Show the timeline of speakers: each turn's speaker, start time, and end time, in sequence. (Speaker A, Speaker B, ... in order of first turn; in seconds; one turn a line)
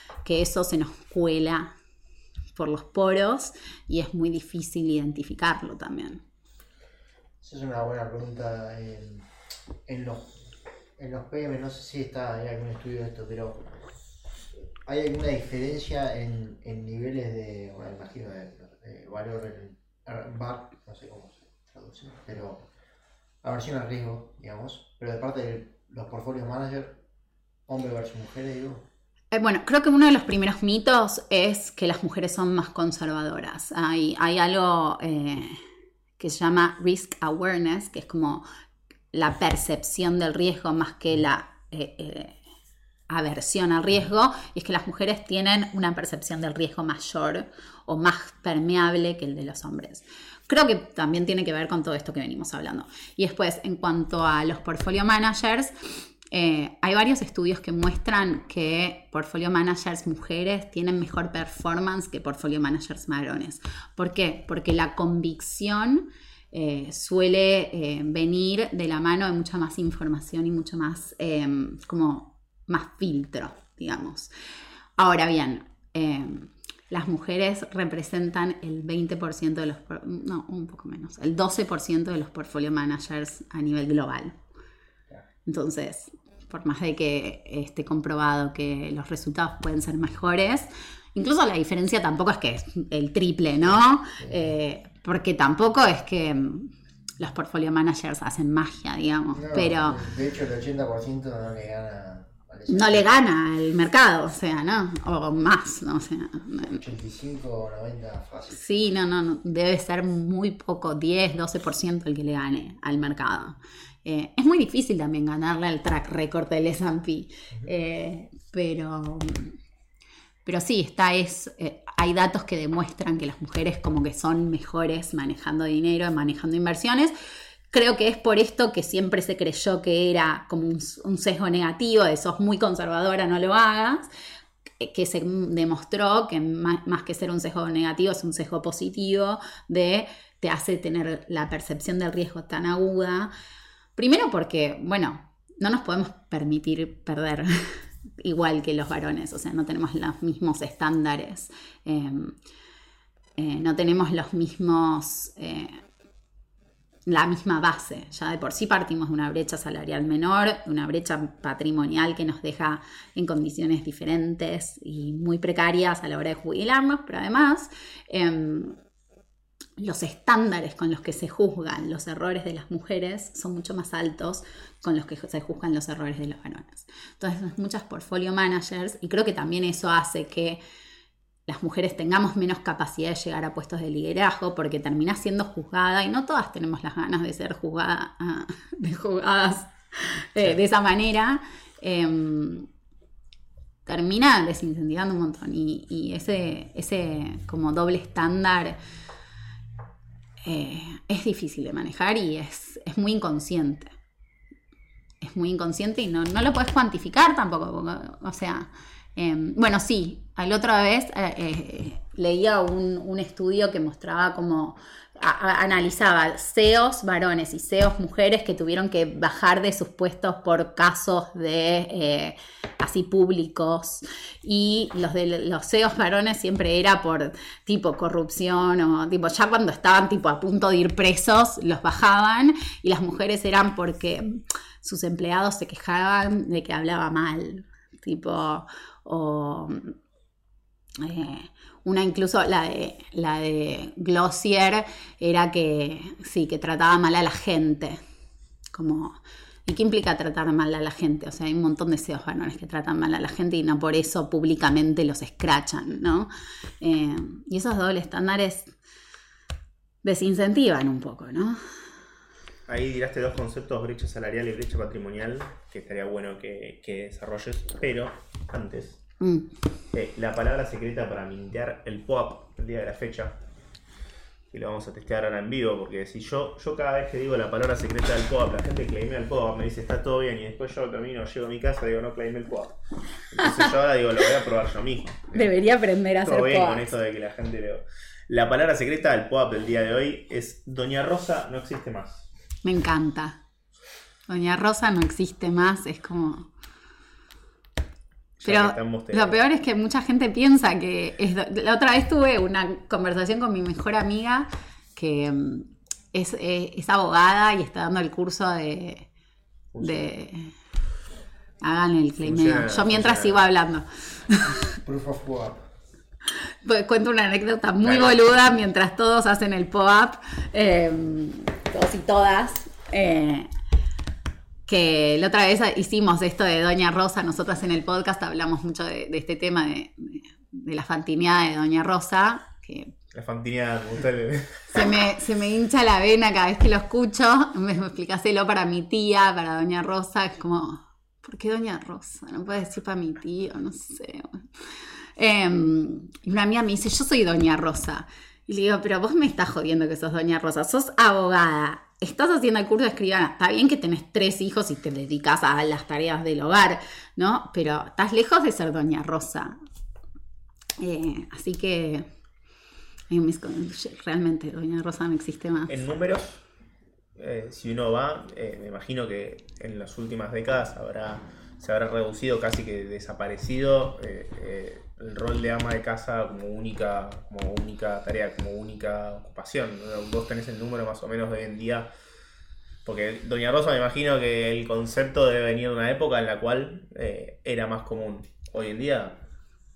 Speaker A: 0.2-1.7
Speaker A: 2.5-6.2
Speaker B: 7.4-9.3
Speaker B: 9.8-10.3
Speaker B: 11.0-13.7
Speaker B: 14.8-22.6
Speaker B: 23.4-27.0
Speaker B: 27.7-28.9
Speaker A: 29.3-35.6
Speaker A: 36.2-38.5
Speaker A: 39.1-42.4
Speaker A: 43.1-55.7
Speaker A: 56.3-74.3
Speaker A: 75.0-84.3
Speaker A: 85.5-100.0
Speaker B: 99.3-103.1
Speaker A: 102.7-106.8
Speaker B: 106.7-108.6
Speaker A: 108.5-119.5
Speaker A: 120.4-127.1
Speaker A: 127.7-134.1
Speaker A: 134.8-143.3
Speaker A: 143.9-152.3
Speaker A: 153.4-155.8
Speaker A: 157.1-168.8
Speaker A: 169.8-180.6
Speaker A: 181.5-192.7
Speaker A: 193.8-198.8
Speaker A: 200.4-203.9
Speaker A: 205.2-239.9
Speaker A: 241.0-248.0
Speaker A: 248.7-256.3
Speaker A: 256.8-258.7
Speaker A: 260.0-261.6
Speaker C: 262.7-269.0
Speaker A: 269.2-269.5
Speaker C: 269.9-273.4
Speaker C: 274.5-282.8
Speaker C: 283.3-285.5
Speaker A: 285.3-286.9
Speaker C: 286.2-292.3
Speaker A: 292.6-293.4
Speaker A: 294.3-296.5
Speaker A: 298.4-309.1
Speaker C: 298.4-299.4
Speaker C: 309.7-310.1
Speaker A: 309.8-310.5
Speaker A: 311.6-314.8
Speaker C: 312.2-313.4
Speaker B: 314.8-315.6
Speaker A: 316.6-323.5
Speaker C: 317.8-318.3
Speaker A: 324.7-332.9
Speaker C: 333.1-334.8
Speaker A: 334.7-344.4
Speaker A: 345.2-359.6
Speaker A: 360.8-362.1
Speaker A: 363.1-365.7
Speaker C: 365.7-366.4
Speaker C: 367.2-381.9
Speaker C: 382.8-389.2